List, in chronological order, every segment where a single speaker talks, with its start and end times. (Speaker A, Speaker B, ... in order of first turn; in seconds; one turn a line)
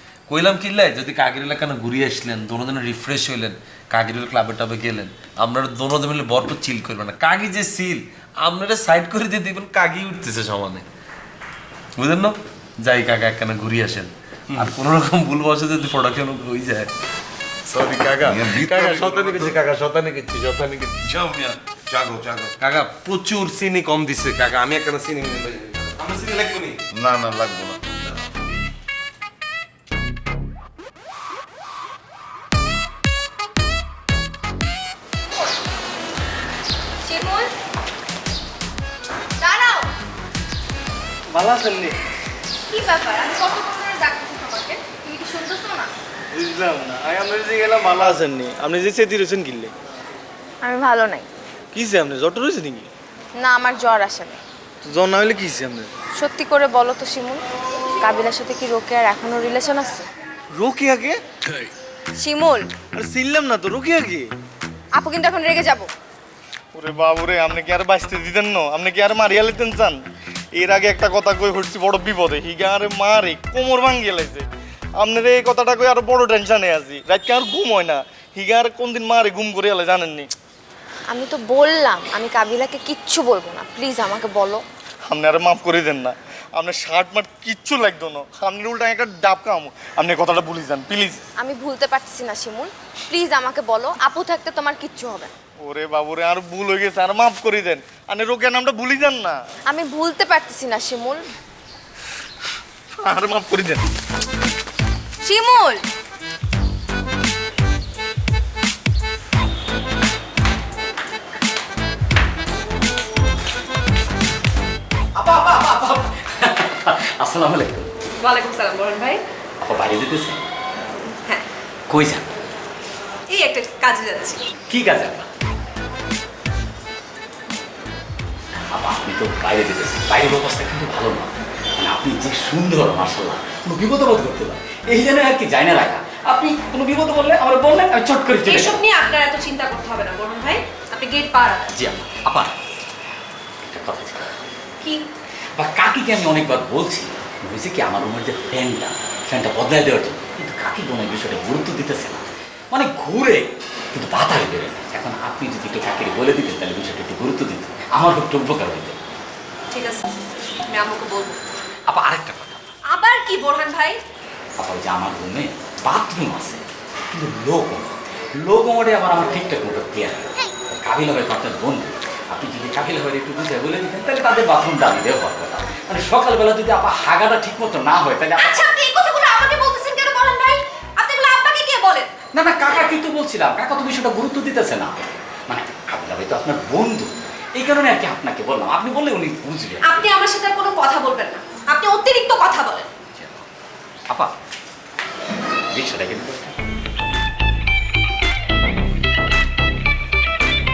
Speaker A: 0.3-10.9
Speaker A: 12.0-16.9
Speaker A: 17.7-21.1
Speaker B: 18.2-19.6
Speaker B: 21.1-22.5
Speaker A: 22.6-26.8
Speaker B: 26.9-27.8
Speaker C: 37.0-37.5
Speaker C: 39.4-39.7
Speaker D: 41.3-42.0
Speaker E: 42.7-45.9
Speaker C: 45.6-45.9
Speaker D: 46.3-49.7
Speaker C: 50.6-51.3
Speaker D: 51.7-52.9
Speaker C: 53.4-54.4
Speaker D: 54.8-55.9
Speaker C: 56.1-57.4
Speaker C: 58.0-60.1
Speaker D: 60.5-61.2
Speaker C: 62.2-62.8
Speaker D: 62.8-64.3
Speaker C: 64.9-65.9
Speaker D: 66.7-70.0
Speaker D: 70.5-74.5
Speaker D: 75.0-80.3
Speaker C: 81.1-84.6
Speaker D: 85.1-91.2
Speaker C: 91.4-95.3
Speaker D: 95.6-99.4
Speaker C: 99.7-101.2
Speaker D: 103.0-103.8
Speaker C: 105.2-105.8
Speaker F: 115.1-117.9
Speaker E: 118.2-119.2
Speaker F: 119.6-120.4
Speaker F: 121.9-122.3
Speaker E: 123.3-124.4
Speaker F: 124.7-125.3
Speaker F: 128.7-138.8
Speaker E: 138.4-141.7
Speaker F: 141.7-142.6
Speaker F: 143.6-144.4
Speaker F: 145.6-159.0
Speaker E: 159.7-160.1
Speaker E: 160.6-161.4
Speaker F: 161.9-162.7
Speaker E: 162.8-164.0
Speaker F: 164.6-178.7
Speaker E: 178.4-182.1
Speaker F: 182.3-190.1
Speaker E: 189.8-192.9
Speaker F: 193.1-193.4
Speaker F: 195.7-196.5